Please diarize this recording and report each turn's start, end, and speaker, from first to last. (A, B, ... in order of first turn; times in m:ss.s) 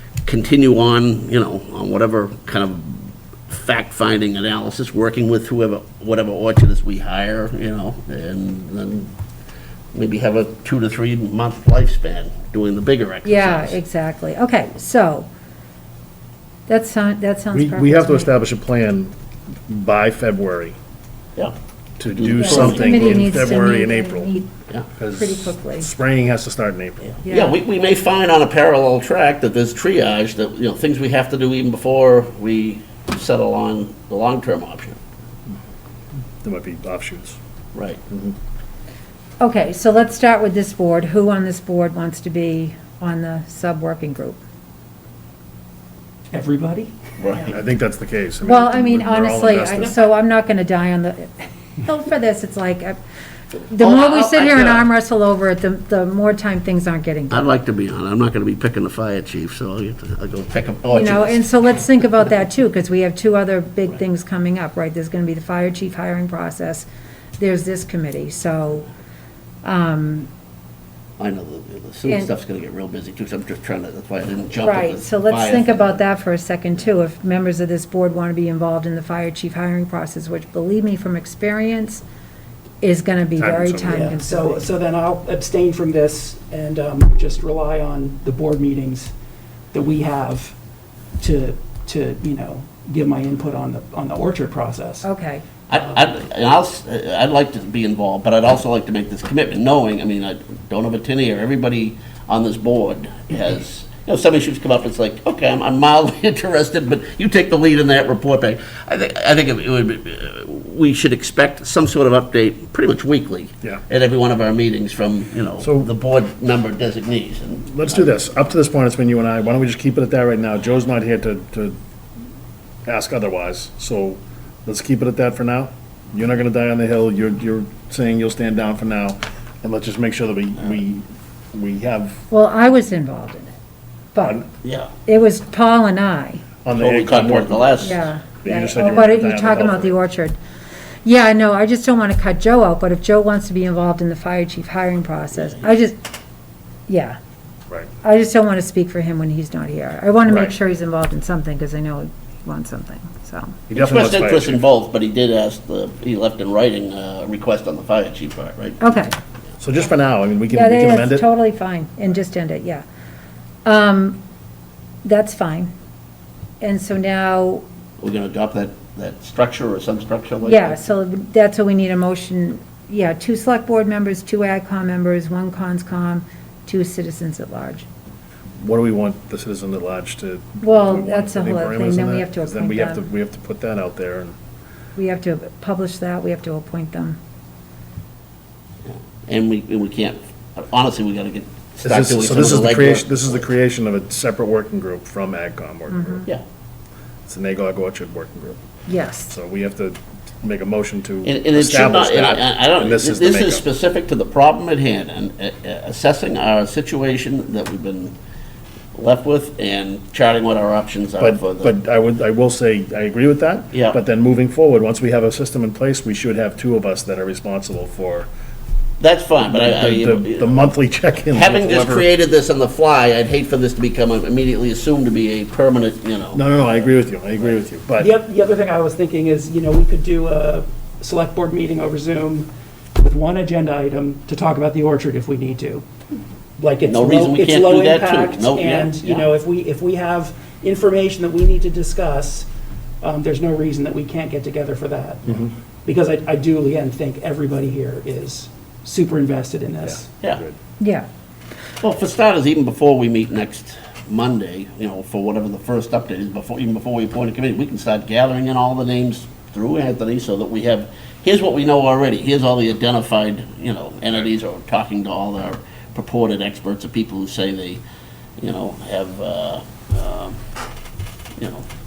0:00.2-0:09.1 A
0:09.9-0:13.8 A
0:13.2-0:15.3 B
0:16.7-0:18.3 B
0:17.5-0:19.1 C
0:19.7-0:20.8 C
0:21.4-0:23.6 A
0:22.0-0:24.3 C
0:22.4-0:24.5 B
0:25.0-0:27.2 C
0:25.1-0:25.9 B
0:27.2-0:27.6 B
0:27.2-0:35.0 A
0:36.4-0:37.4 C
0:38.1-0:38.4 C
0:39.4-0:44.4 B
0:46.3-0:46.9 D
0:47.2-0:47.6 A
0:47.5-0:50.0 C
0:48.4-0:53.0 B
0:53.6-0:57.5 B
0:53.8-0:54.9 A
0:57.3-1:01.9 A
1:00.9-1:06.9 B
1:07.4-1:08.9 B
1:09.6-1:10.3 B
1:11.2-1:16.0 A
1:12.0-1:12.3 B
1:14.6-1:22.0 B
1:22.8-1:24.6 B
1:23.4-1:24.1 C
1:23.9-1:29.1 D
1:29.7-1:30.6 D
1:31.2-1:35.1 D
1:35.0-1:35.4 B
1:35.7-1:58.1 A
1:55.6-1:55.9 C
1:57.7-2:01.8 C
2:02.9-2:12.2 C
2:12.3-2:13.5 B
2:14.2-2:14.4 B
2:14.6-2:14.9 A
2:15.1-2:16.5 B
2:16.6-2:20.0 C
2:16.8-2:18.1 A
2:17.8-2:20.4 B
2:21.0-2:26.0 B
2:26.9-2:27.2 B
2:28.0-2:33.6 B
2:30.3-2:30.5 C
2:33.7-2:34.6 C
2:33.8-2:38.8 A
2:38.8-2:39.2 B
2:39.6-2:41.3 C
2:40.5-2:42.8 B
2:43.6-2:44.2 B
2:45.0-2:45.7 B
2:46.6-2:47.6 B
2:48.0-2:50.8 A
2:50.4-2:57.9 B
2:58.6-3:04.3 C
3:00.6-3:03.0 B
3:05.0-3:07.2 B
3:08.8-3:13.4 A
3:11.8-3:16.3 C
3:15.9-3:16.3 B
3:17.3-3:18.6 C
3:18.9-3:19.3 B
3:19.3-3:23.6 C
3:21.2-3:28.2 A
3:28.9-3:31.7 A
3:31.2-3:38.3 C
3:33.7-3:34.0 A
3:39.0-3:40.7 A
3:39.5-3:42.1 C
3:41.3-3:46.4 A
3:46.4-3:48.1 C
3:48.0-3:55.8 D
3:56.6-4:02.5 D
3:56.8-3:59.3 A
4:03.0-4:10.1 D
4:10.2-4:10.6 C
4:10.8-4:11.1 B
4:11.8-4:27.8 A
4:28.4-4:30.4 A
4:31.4-4:31.6 A